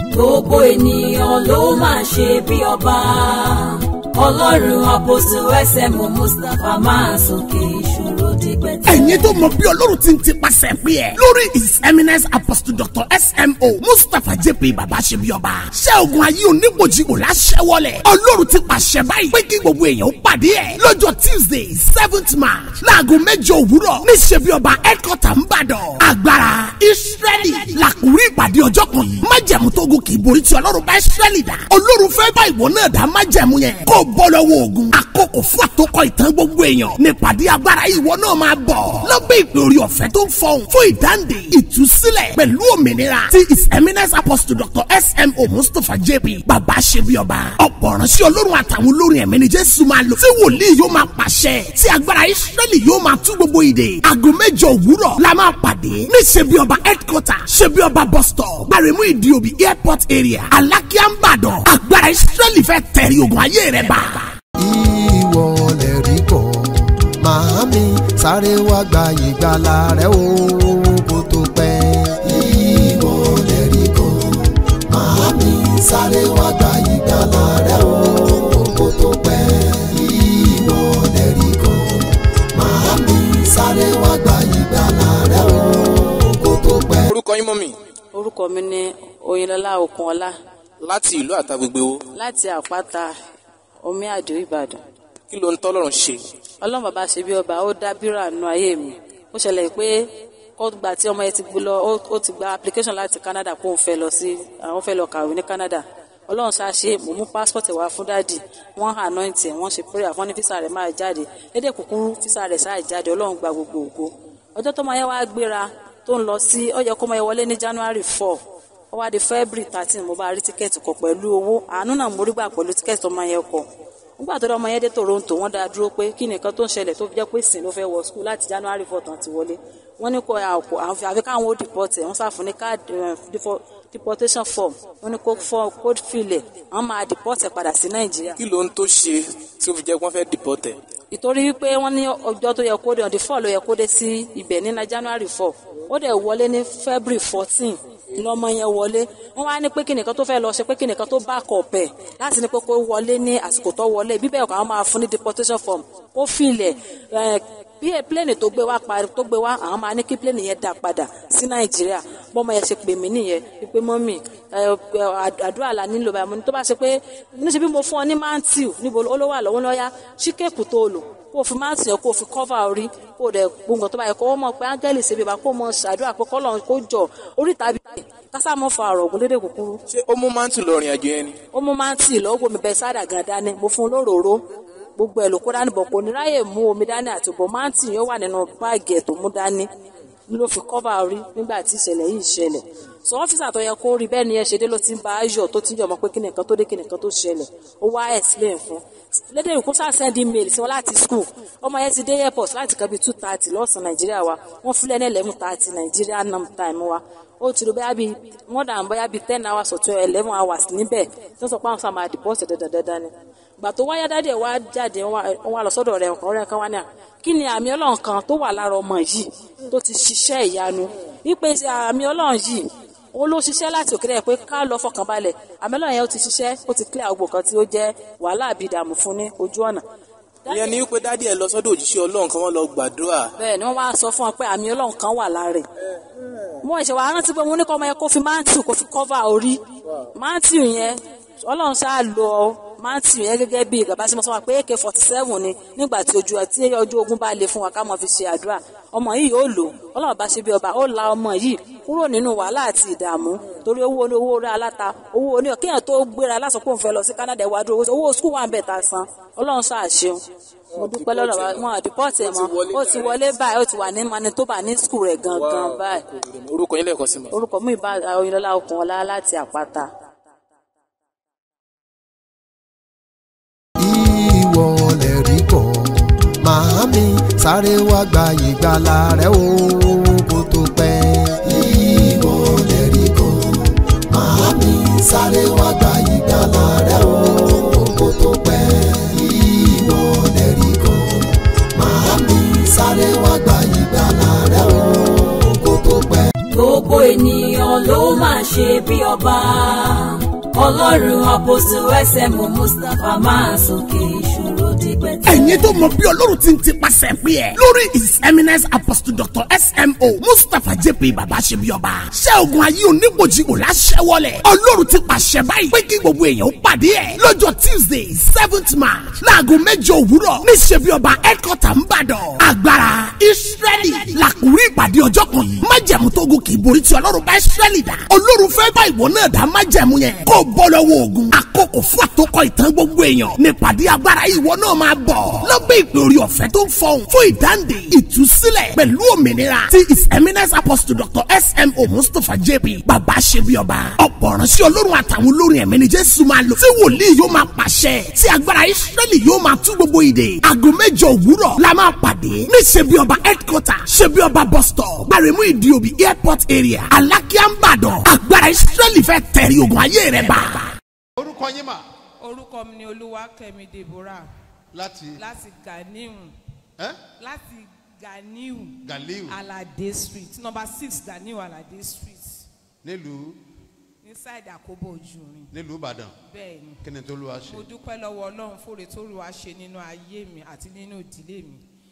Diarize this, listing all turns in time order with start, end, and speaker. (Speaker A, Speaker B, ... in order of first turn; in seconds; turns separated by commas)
Speaker A: 0.1-9.5, Speaker B: 8.8-64.3, Speaker C: 64.6-74.2, Speaker C: 74.9-85.8, Speaker C: 86.3-87.0, Speaker D: 87.1-87.7, Speaker E: 88.1-90.3, Speaker D: 90.8-92.0, Speaker E: 92.1-93.1, Speaker E: 93.8-94.8, Speaker D: 95.3-96.2, Speaker E: 96.6-118.4, Speaker E: 118.9-123.7, Speaker E: 124.2-138.3, Speaker D: 138.4-140.8, Speaker E: 141.1-179.8, Speaker D: 179.9-181.4, Speaker E: 181.5-184.4, Speaker E: 185.0-189.7, Speaker E: 190.3-229.8, Speaker E: 230.5-230.8, Speaker D: 230.5-233.3, Speaker E: 233.4-235.6, Speaker E: 236.6-239.6, Speaker E: 240.1-260.2, Speaker D: 260.7-263.3, Speaker E: 260.7-266.0, Speaker D: 265.3-267.3, Speaker E: 267.3-269.9, Speaker C: 273.8-275.9, Speaker C: 276.4-283.4, Speaker C: 284.1-291.1, Speaker C: 291.8-296.2, Speaker A: 296.5-305.9, Speaker B: 305.2-360.7, Speaker F: 361.2-361.9, Speaker G: 362.2-364.3, Speaker F: 364.7-365.2, Speaker G: 365.1-366.3, Speaker G: 367.2-372.5, Speaker F: 368.9-369.4, Speaker F: 372.8-373.4, Speaker G: 374.0-375.5, Speaker F: 375.5-376.1, Speaker G: 376.3-376.8, Speaker F: 376.8-377.6, Speaker G: 377.4-381.6